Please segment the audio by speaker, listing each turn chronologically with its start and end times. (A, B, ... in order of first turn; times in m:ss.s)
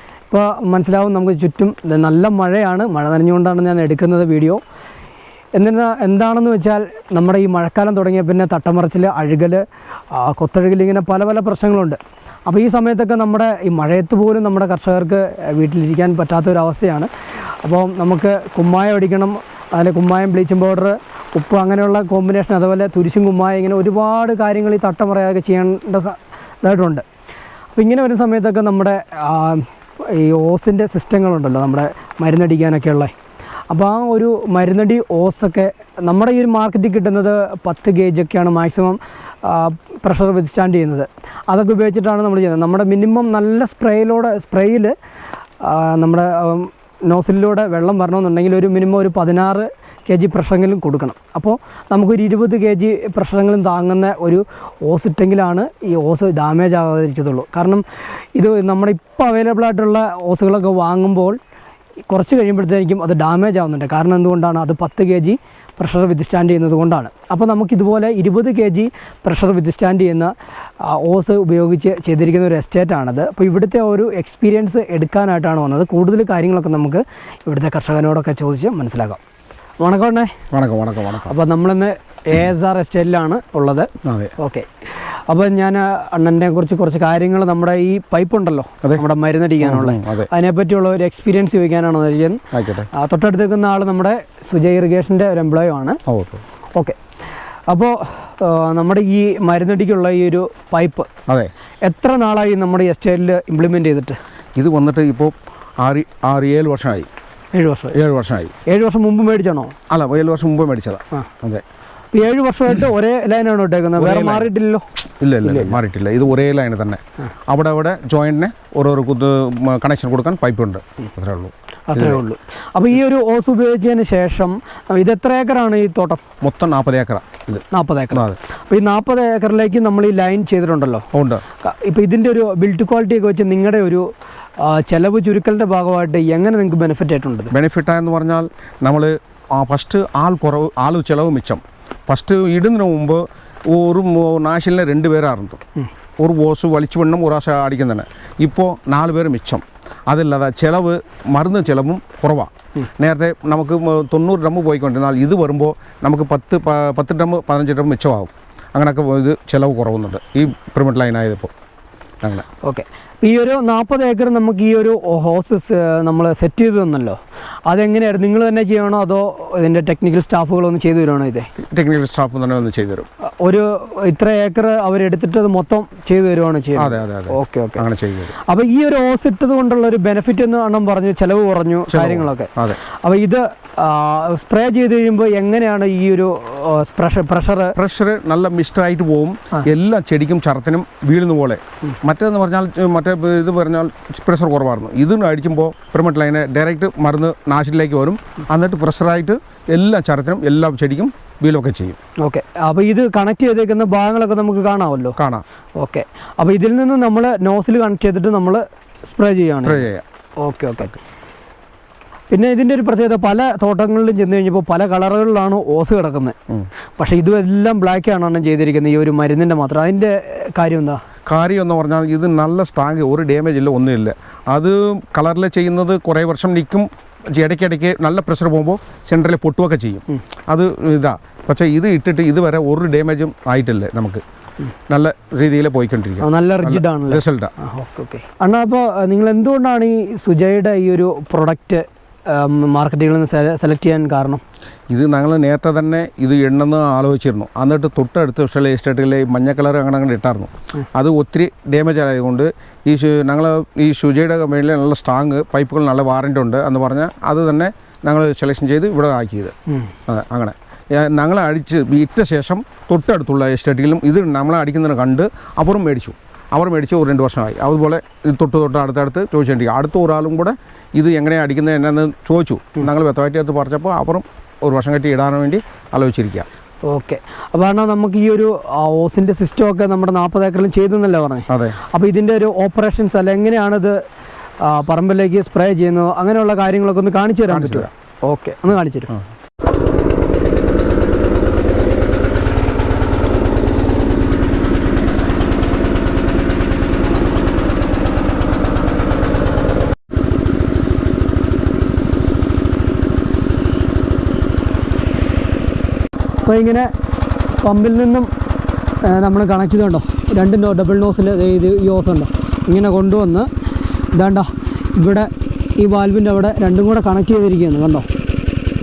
0:00.3-0:04.6 A
0:05.5-0:17.1 A
0:17.6-0:27.0 A
0:27.7-0:33.1 A
0:33.7-0:44.9 A
0:45.6-0:57.8 A
0:58.3-1:01.4 A
1:02.1-1:19.2 A
1:19.8-1:20.3 A
1:20.5-1:21.3 B
1:21.2-1:36.0 A
1:24.0-1:24.3 B
1:29.6-1:30.3 B
1:32.5-1:32.9 B
1:36.1-1:36.4 B
1:37.7-1:41.1 A
1:41.8-1:44.2 A
1:44.6-1:47.1 B
1:47.5-1:47.9 A
1:47.9-1:48.5 B
1:48.6-1:49.7 A
1:49.9-1:51.6 B
1:52.1-1:54.8 A
1:54.0-1:54.5 B
1:55.2-2:02.2 B
1:55.4-1:55.8 A
2:01.9-2:06.2 A
2:06.4-2:08.4 B
2:07.7-2:11.1 A
2:11.1-2:11.4 B
2:11.6-2:14.1 A
2:14.6-2:17.5 A
2:17.5-2:25.6 B
2:26.2-2:41.5 B
2:42.6-2:51.5 A
2:51.6-2:53.1 B
2:53.4-2:57.8 A
2:56.8-2:58.3 B
2:58.4-3:07.8 A
3:01.9-3:02.8 B
3:07.8-3:22.0 B
3:22.2-3:25.2 A
3:25.2-3:25.4 B
3:25.8-3:29.9 A
3:29.6-3:30.0 B
3:30.4-3:31.0 A
3:32.3-3:36.4 A
3:37.0-3:41.0 A
3:41.2-3:54.2 B
3:54.9-3:57.5 B
3:56.2-4:04.4 A
4:04.9-4:19.5 B
4:20.1-4:36.5 B
4:36.8-4:44.0 A
4:41.5-4:41.8 B
4:44.6-4:49.1 A
4:47.5-4:47.9 B
5:06.4-5:06.9 A
5:07.6-5:08.3 A
5:09.0-5:13.5 A
5:14.1-5:18.1 A